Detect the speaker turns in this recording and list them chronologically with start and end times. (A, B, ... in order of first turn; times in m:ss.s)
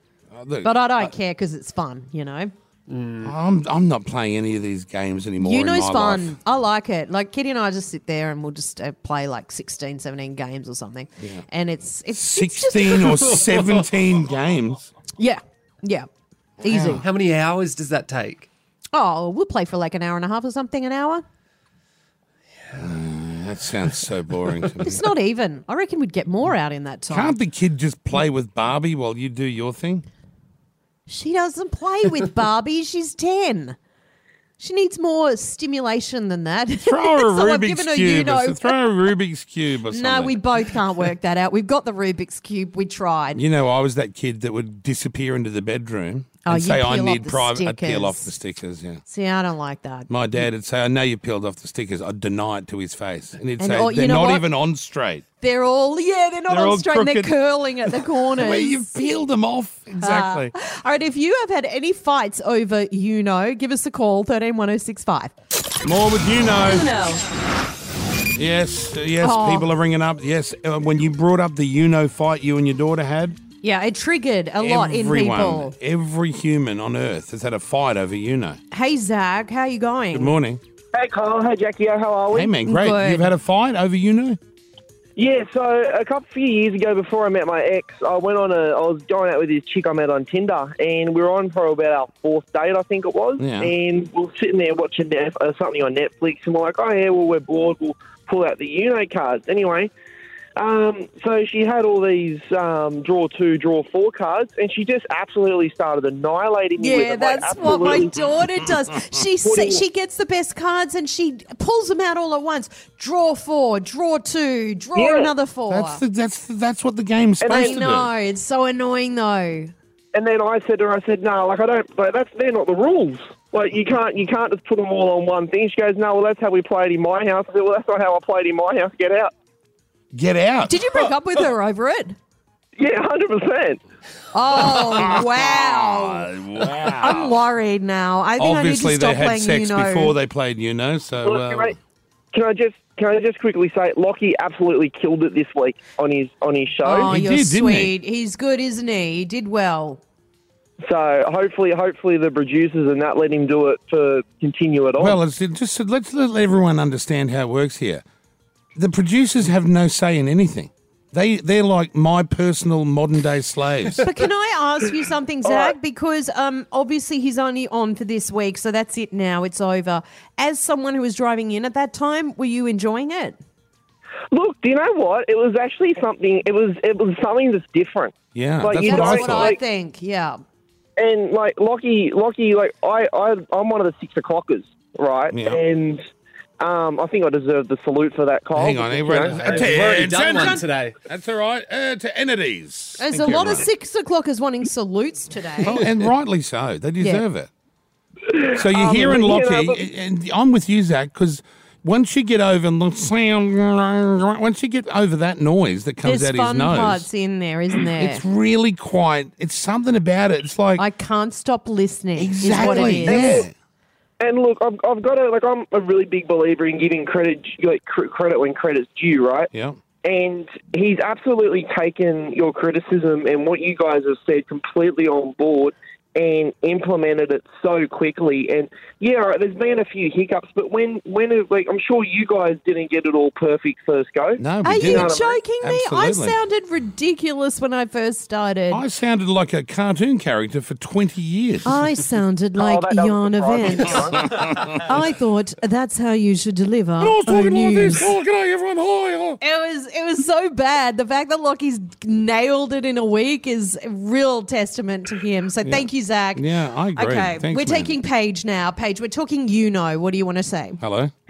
0:00.3-0:01.1 A
0:00.6-0:02.5 B
0:02.9-0:03.3 C
0:03.2-0:06.3 A
0:05.4-0:13.5 B
0:11.2-0:11.4 A
0:12.1-0:14.9 A
0:15.2-0:16.1 B
0:16.6-0:17.0 B
0:16.6-0:17.0 A
0:16.8-0:18.5 C
0:18.9-0:21.2 B
0:22.7-0:25.1 A
0:24.8-0:27.4 B
0:27.1-0:30.0 A
0:31.1-0:33.8 B
0:34.6-0:38.8 B
0:36.8-0:40.4 A
0:39.9-0:43.4 B
0:43.3-0:49.0 A
0:46.4-0:48.3 B
0:49.1-0:50.1 B
0:50.1-0:55.2 A
0:53.6-0:54.5 B
0:55.4-0:59.1 B
0:56.5-0:57.3 A
0:57.9-1:00.5 A
1:00.0-1:05.3 B
1:05.8-1:06.9 A
1:06.6-1:07.2 B
1:08.3-1:13.4 A
1:09.2-1:09.7 B
1:13.6-1:15.7 B
1:14.6-1:18.6 A
1:18.7-1:20.3 B
1:20.1-1:20.6 A
1:20.9-1:22.6 D
1:22.3-1:24.4 A
1:22.6-1:23.3 B
1:25.2-1:39.9 D
1:33.4-1:33.7 A
1:40.6-1:48.2 D
1:46.8-1:56.0 B
1:49.4-1:49.8 D
1:54.9-1:55.3 D
1:55.7-1:58.1 A
1:57.4-1:57.8 D
1:57.5-1:59.7 B
2:00.1-2:09.3 D
2:10.1-2:10.8 A
2:10.7-2:12.2 B
2:12.8-2:13.8 D
2:14.3-2:16.3 B
2:14.7-2:17.4 A
2:16.9-2:20.2 B
2:18.4-2:21.8 A
2:21.2-2:21.7 D
2:22.3-2:27.1 D
2:26.8-2:30.0 B
2:27.0-2:27.9 A
2:30.8-2:35.2 D
2:35.0-2:38.0 A
2:38.8-2:44.0 A
2:44.0-2:53.4 B
2:45.4-2:45.7 D
2:54.3-2:59.6 D
2:58.3-2:59.5 A
2:58.8-3:00.4 B
3:01.0-3:06.0 D
3:05.3-3:05.6 A
3:06.6-3:10.0 D
3:08.5-3:13.7 A
3:09.2-3:11.0 C
3:10.2-3:10.6 B
3:13.0-3:15.8 B
3:15.6-3:17.5 A
3:18.3-3:19.8 D
3:18.5-3:27.1 A
3:26.0-3:28.2 B
3:27.9-3:30.8 A
3:30.8-3:33.4 B
3:32.2-3:33.5 A
3:32.5-3:33.4 D
3:34.2-3:39.5 D
3:39.5-3:39.8 A
3:40.0-3:55.4 D
3:54.4-3:56.4 A
3:54.6-3:58.8 B
3:58.7-4:01.8 A
4:01.6-4:08.1 B
4:02.6-4:04.5 D
4:04.4-4:04.7 A
4:07.0-4:09.4 A
4:09.4-4:20.8 B
4:15.6-4:18.0 A
4:20.8-4:21.1 A